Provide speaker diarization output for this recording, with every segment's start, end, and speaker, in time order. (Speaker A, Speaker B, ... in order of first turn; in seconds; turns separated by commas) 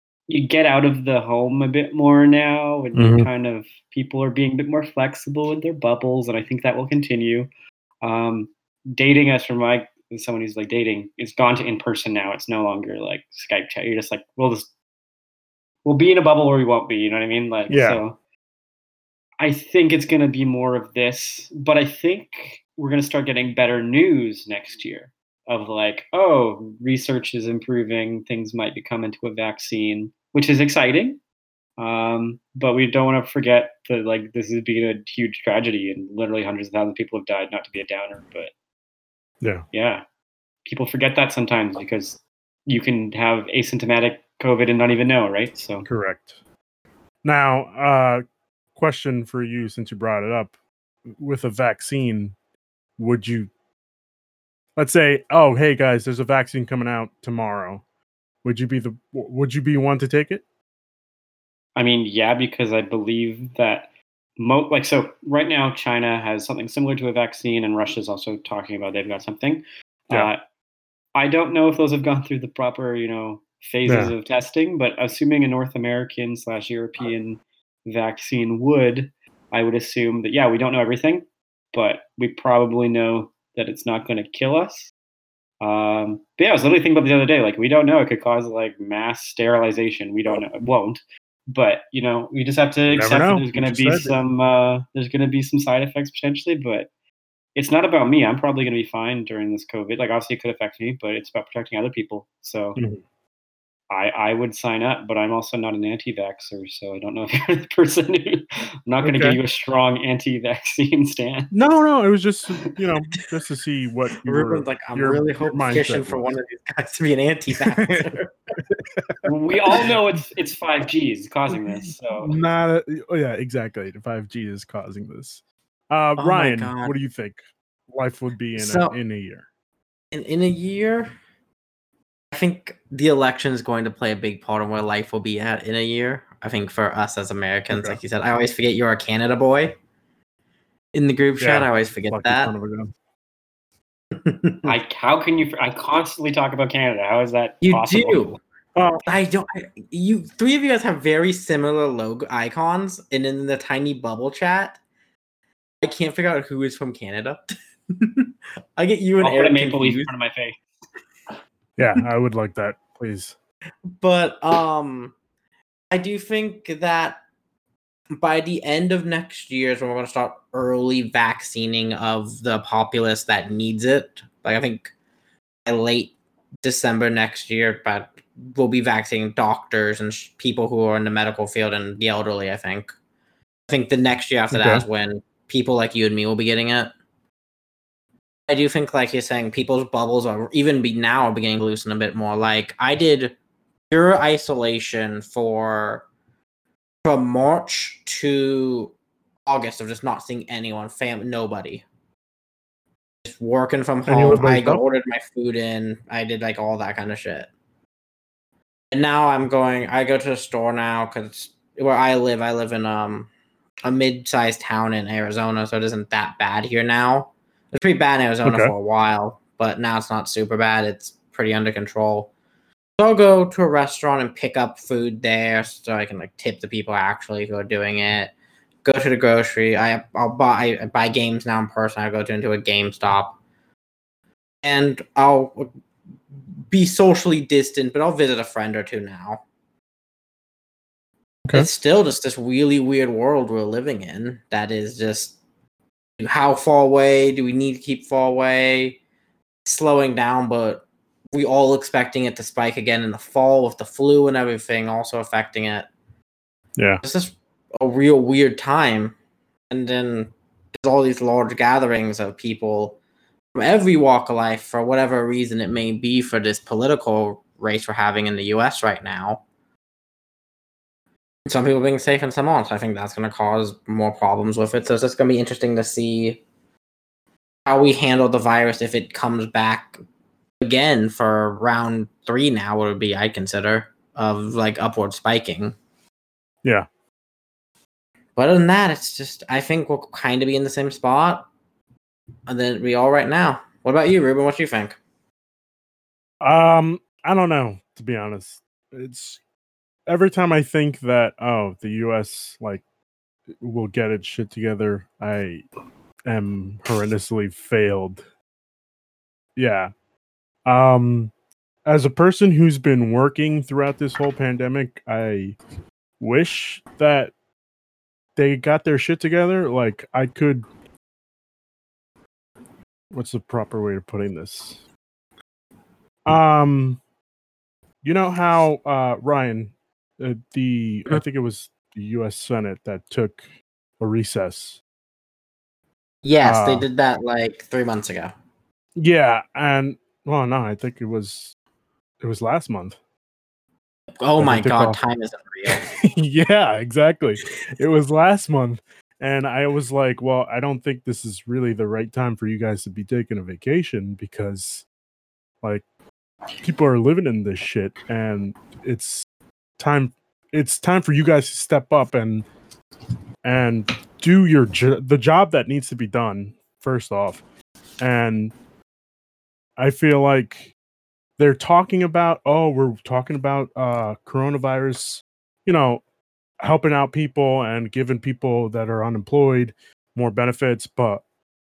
Speaker A: 0.3-7.5, Speaker B: 3.0-3.3, Speaker A: 8.0-14.7, Speaker A: 15.8-18.2, Speaker B: 17.7-18.0, Speaker A: 19.4-31.2, Speaker A: 31.8-38.5, Speaker A: 39.7-40.0, Speaker A: 40.7-45.9, Speaker B: 45.8-46.4, Speaker B: 47.2-48.2, Speaker B: 48.8-50.5, Speaker B: 51.1-52.3, Speaker B: 53.0-53.5, Speaker B: 54.8-57.8, Speaker B: 58.4-60.4, Speaker A: 61.8-63.9, Speaker A: 64.4-70.4, Speaker A: 71.1-84.9, Speaker B: 73.8-74.1, Speaker A: 85.6-96.9, Speaker B: 92.9-94.2, Speaker A: 97.5-102.8, Speaker B: 102.8-103.0, Speaker A: 103.9-111.5, Speaker B: 109.0-109.4, Speaker B: 111.5-116.3, Speaker C: 114.2-118.3, Speaker B: 117.7-118.1, Speaker B: 118.7-120.2, Speaker A: 119.2-122.4, Speaker B: 122.2-129.4, Speaker C: 126.2-126.9, Speaker C: 128.6-129.0, Speaker C: 130.1-131.1, Speaker C: 132.3-139.8, Speaker B: 137.7-138.0, Speaker C: 140.9-142.5, Speaker B: 141.4-142.9, Speaker C: 144.1-144.7, Speaker A: 144.6-148.3, Speaker C: 147.6-148.4, Speaker B: 148.8-149.0, Speaker C: 149.1-154.8, Speaker C: 155.8-160.1, Speaker A: 159.2-160.6, Speaker B: 161.8-163.3, Speaker C: 164.0-165.1, Speaker C: 165.9-167.2, Speaker C: 168.1-174.9, Speaker C: 175.7-182.9, Speaker C: 183.7-186.9, Speaker B: 184.5-184.8, Speaker C: 188.5-193.3, Speaker C: 193.9-196.1, Speaker C: 197.0-198.9, Speaker C: 199.4-201.8, Speaker C: 203.2-207.5, Speaker B: 204.1-204.8, Speaker C: 208.9-213.3, Speaker C: 213.8-222.3, Speaker B: 218.4-218.7, Speaker C: 223.0-228.3, Speaker C: 228.8-233.4, Speaker C: 234.6-235.7, Speaker C: 236.7-239.4, Speaker C: 241.5-245.4, Speaker C: 246.2-249.0, Speaker C: 249.6-255.9, Speaker B: 256.8-257.0, Speaker C: 257.0-259.1, Speaker C: 259.7-263.0, Speaker C: 263.5-269.4, Speaker C: 271.4-276.4, Speaker C: 277.6-280.0, Speaker C: 280.6-285.8, Speaker C: 288.4-291.5, Speaker C: 292.5-295.0, Speaker B: 296.4-299.4, Speaker B: 300.1-302.8, Speaker B: 303.6-305.6, Speaker B: 306.2-308.2, Speaker B: 309.6-309.9, Speaker B: 310.6-311.3, Speaker B: 311.9-315.6, Speaker B: 316.2-317.3, Speaker B: 318.4-320.7, Speaker B: 323.1-324.8, Speaker B: 326.2-327.0, Speaker B: 328.0-333.4, Speaker B: 334.0-334.8, Speaker C: 336.2-338.3, Speaker B: 336.4-336.9, Speaker B: 339.0-341.5, Speaker B: 342.2-343.0, Speaker C: 344.2-345.9, Speaker B: 344.4-345.0, Speaker B: 345.7-354.9, Speaker B: 356.6-359.3, Speaker B: 359.8-362.5, Speaker B: 363.4-367.4, Speaker B: 368.0-368.5, Speaker B: 369.8-370.7, Speaker B: 371.4-376.0, Speaker B: 376.6-381.2